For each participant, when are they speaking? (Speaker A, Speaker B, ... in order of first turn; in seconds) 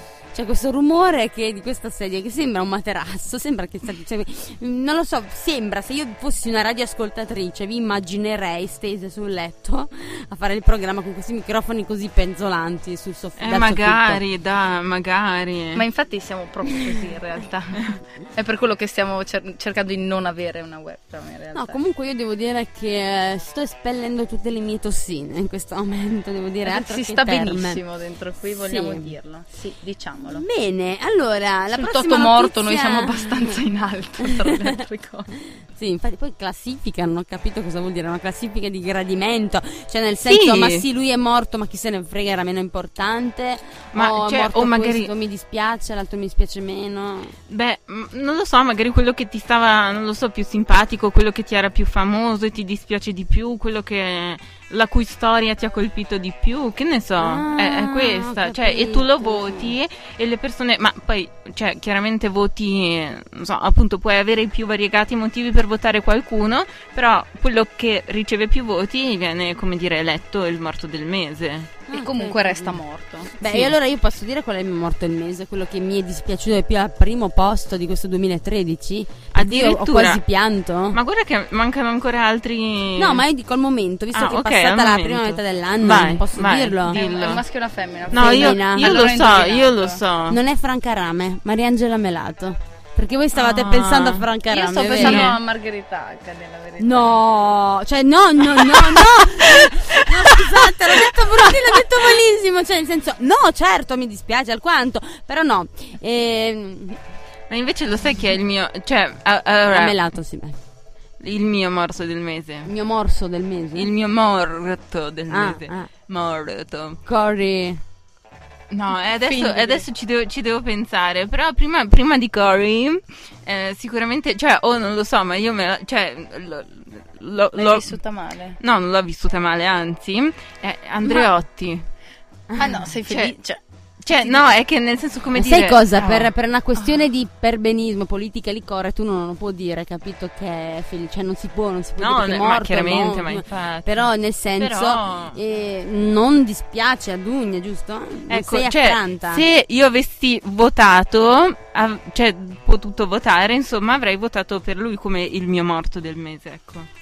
Speaker A: 0.3-14.2, 21.5-27.8, 28.6-29.1, 30.3-33.6, 34.2-34.7, 35.5-47.4, 57.2-59.7, 71.9-72.8, 73.4-81.0, 83.0-87.0, 88.1-89.1, 90.3-95.3, 96.8-107.0, 109.7-110.6, 112.6-113.9, 115.3-115.9, 117.0-117.8, 135.3-149.4
Speaker B: 13.4-15.8, 40.2-40.8, 43.9-45.1, 47.5-71.8, 79.3-80.2, 80.9-83.2, 84.1-87.4, 88.1-90.4, 93.3-94.3, 94.8-95.4, 98.6-101.7, 107.5-110.0, 111.2-112.7, 113.7-117.0, 118.7-128.0, 128.6-131.8, 133.1-133.3, 134.0-136.3, 142.0-145.4, 148.3-156.9
Speaker C: 15.7-21.8, 26.6-30.4, 31.7-35.3, 71.9-73.4, 86.9-90.0, 94.5-97.0, 119.2-119.8, 127.5-128.6, 131.0-131.3, 132.5-133.6, 134.1-134.5